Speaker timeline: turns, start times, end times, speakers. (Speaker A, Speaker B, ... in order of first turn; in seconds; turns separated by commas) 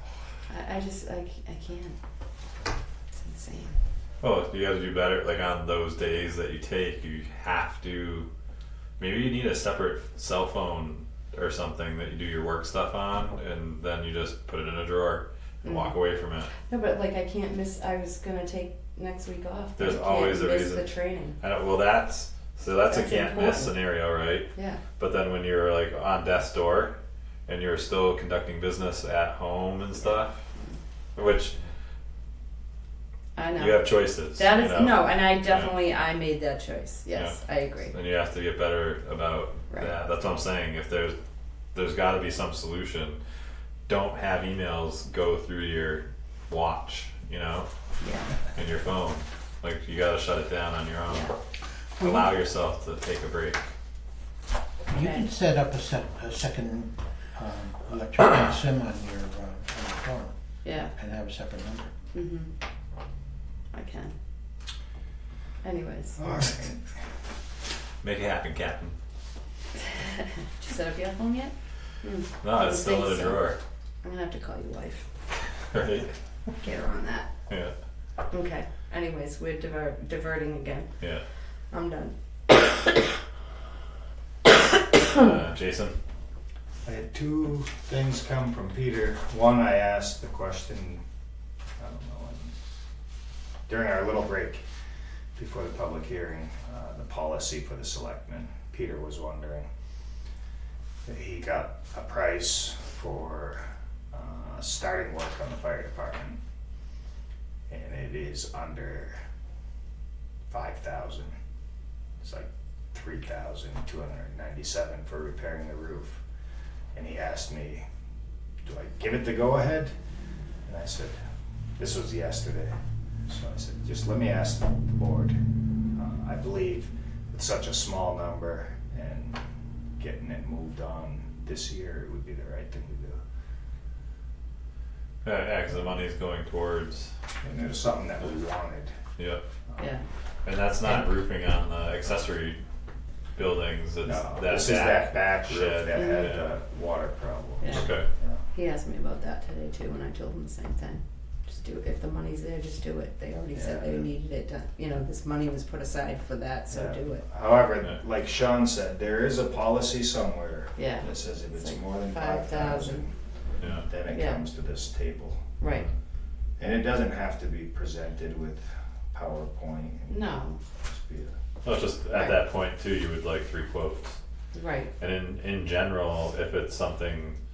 Speaker A: 0.5-2.0, Speaker A: 3.1-3.8, Speaker B: 4.2-8.3, Speaker B: 9.0-16.5, Speaker A: 15.6-15.9, Speaker A: 16.6-21.4, Speaker B: 19.8-20.9, Speaker B: 21.4-26.9, Speaker A: 22.9-23.8, Speaker A: 24.5-24.8, Speaker B: 27.5-30.4, Speaker B: 31.2-31.6, Speaker A: 33.4-37.9, Speaker B: 33.6-35.7, Speaker B: 37.1-41.2, Speaker B: 41.7-43.2, Speaker B: 43.9-47.7, Speaker A: 48.0-48.4, Speaker B: 48.5-51.3, Speaker B: 52.0-53.7, Speaker C: 54.9-60.4, Speaker A: 54.9-55.3, Speaker A: 60.6-60.9, Speaker C: 60.9-61.9, Speaker A: 62.1-62.5, Speaker A: 63.7-64.2, Speaker A: 65.6-66.2, Speaker D: 66.2-66.8, Speaker B: 68.0-69.0, Speaker A: 69.9-73.5, Speaker B: 72.4-73.6, Speaker A: 74.0-75.1, Speaker B: 75.7-76.1, Speaker A: 76.6-77.3, Speaker B: 77.5-77.7, Speaker A: 78.3-80.9, Speaker A: 81.7-82.1, Speaker B: 85.0-86.0, Speaker D: 86.8-91.0, Speaker D: 91.8-92.5, Speaker D: 93.7-94.6, Speaker D: 95.4-99.7, Speaker D: 101.0-106.4, Speaker D: 107.7-109.2, Speaker D: 110.5-111.3, Speaker D: 112.2-116.2, Speaker D: 116.9-117.8, Speaker D: 118.6-119.9, Speaker D: 120.7-121.2, Speaker D: 121.8-122.7, Speaker D: 123.3-125.4, Speaker D: 126.0-129.4, Speaker D: 130.0-133.2, Speaker B: 135.2-137.1, Speaker D: 137.4-138.9, Speaker B: 139.2-139.4, Speaker A: 139.8-140.0, Speaker B: 140.4-142.6, Speaker B: 143.3-146.5, Speaker D: 144.0-148.4, Speaker A: 145.9-146.3, Speaker A: 147.6-147.9, Speaker B: 147.7-148.1, Speaker A: 148.5-157.2, Speaker D: 153.6-154.1, Speaker D: 156.7-163.2, Speaker A: 160.8-163.0, Speaker B: 163.6-163.9, Speaker D: 163.8-165.5, Speaker A: 164.1-164.4, Speaker A: 165.6-165.9, Speaker D: 166.6-171.4, Speaker A: 170.1-170.6, Speaker B: 171.6-174.2, Speaker A: 174.5-174.9, Speaker B: 175.0-177.4